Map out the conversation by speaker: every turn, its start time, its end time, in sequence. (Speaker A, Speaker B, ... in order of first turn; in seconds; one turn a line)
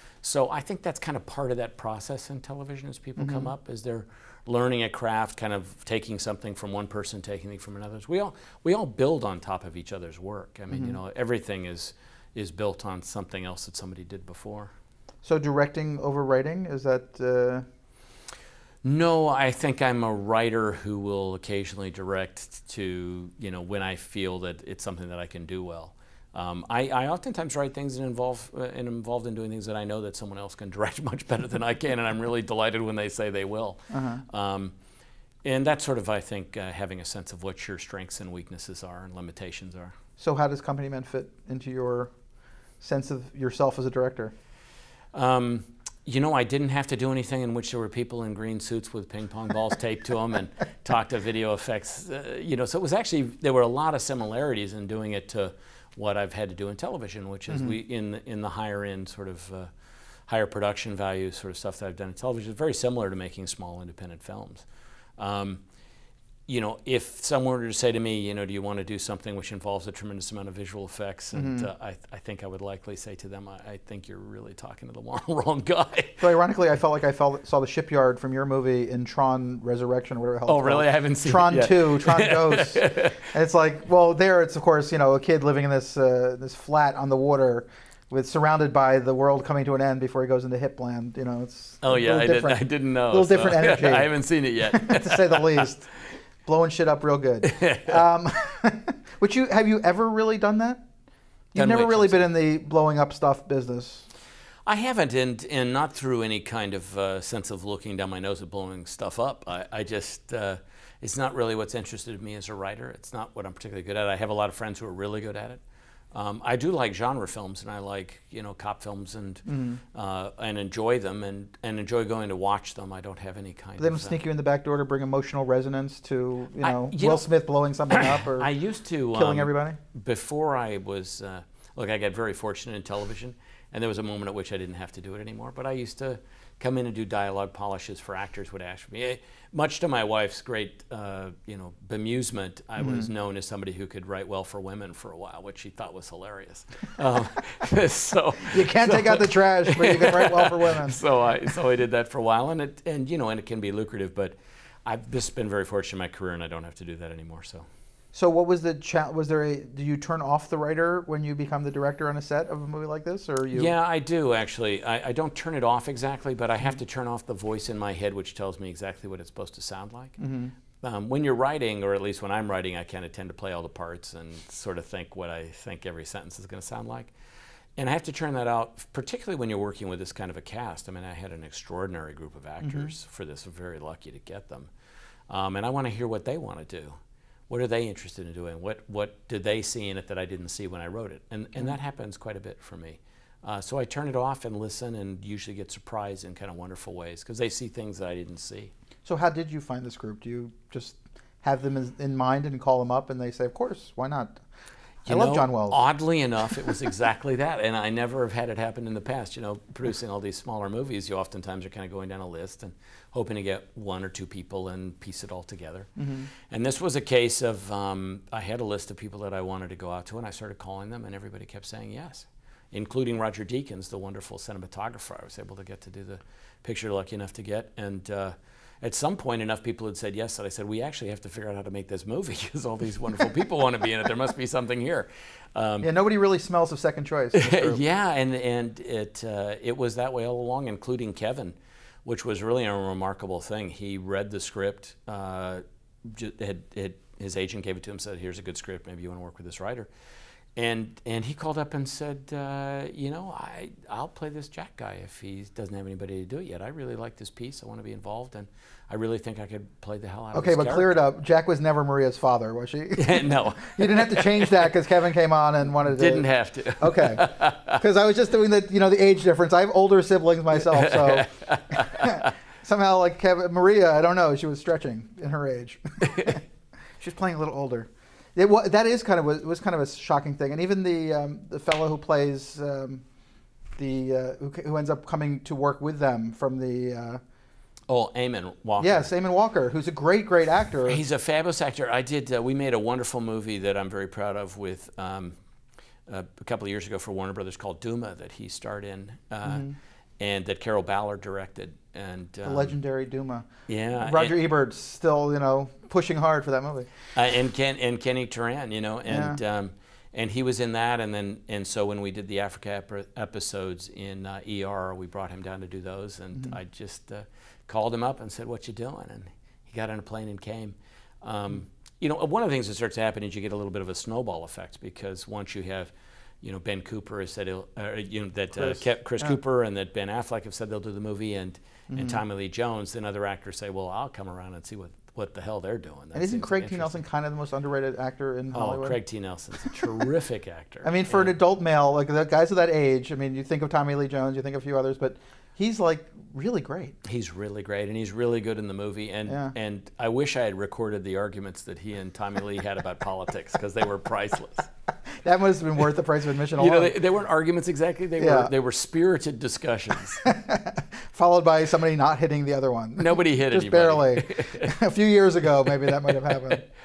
Speaker A: 0.2-14.7
Speaker B: 3.2-3.5
Speaker B: 15.2-17.6
Speaker A: 18.8-34.7
Speaker B: 33.9-34.2
Speaker A: 35.4-39.9
Speaker B: 40.2-42.1
Speaker B: 42.8-44.3
Speaker A: 45.1-59.7
Speaker A: 60.2-64.7
Speaker A: 65.2-65.6
Speaker A: 66.5-76.2
Speaker B: 71.3-71.7
Speaker B: 76.2-95.9
Speaker A: 80.5-83.2
Speaker A: 91.8-95.7
Speaker B: 96.4-100.8
Speaker A: 97.4-98.0
Speaker B: 101.5-104.1
Speaker A: 101.5-102.2
Speaker A: 104.7-115.6
Speaker A: 116.1-124.2
Speaker B: 119.5-119.8
Speaker B: 123.8-128.5
Speaker A: 126.6-127.3
Speaker A: 127.9-157.7
Speaker B: 129.1-129.8
Speaker B: 142.8-143.1
Speaker B: 148.4-151.0
Speaker B: 158.1-163.7
Speaker A: 163.5-170.2
Speaker B: 170.2-170.5
Speaker A: 170.8-177.1
Speaker A: 177.8-184.7
Speaker B: 182.6-182.9
Speaker A: 185.3-187.0
Speaker A: 187.5-198.7
Speaker B: 199.0-204.4
Speaker A: 205.0-235.9
Speaker B: 205.1-205.8
Speaker B: 216.0-216.3
Speaker B: 235.8-237.8
Speaker A: 237.3-249.9
Speaker A: 250.6-260.9
Speaker B: 260.3-276.4
Speaker A: 262.9-264.7
Speaker A: 265.8-267.8
Speaker A: 270.6-272.3
Speaker B: 277.0-283.0
Speaker B: 283.8-287.2
Speaker A: 287.9-289.1
Speaker B: 288.8-291.0
Speaker A: 290.8-295.4
Speaker A: 296.1-302.7
Speaker B: 299.4-299.8
Speaker B: 302.4-306.9
Speaker A: 303.7-304.3
Speaker A: 307.1-337.0
Speaker B: 309.1-309.4
Speaker B: 328.6-329.3
Speaker B: 331.9-332.2
Speaker B: 336.1-339.0
Speaker A: 338.5-341.4
Speaker B: 340.8-347.0
Speaker A: 347.0-354.7
Speaker B: 349.3-349.5
Speaker B: 355.2-356.9
Speaker A: 356.5-360.2
Speaker B: 358.2-358.5
Speaker B: 360.2-366.7
Speaker A: 363.0-364.7
Speaker A: 365.6-366.6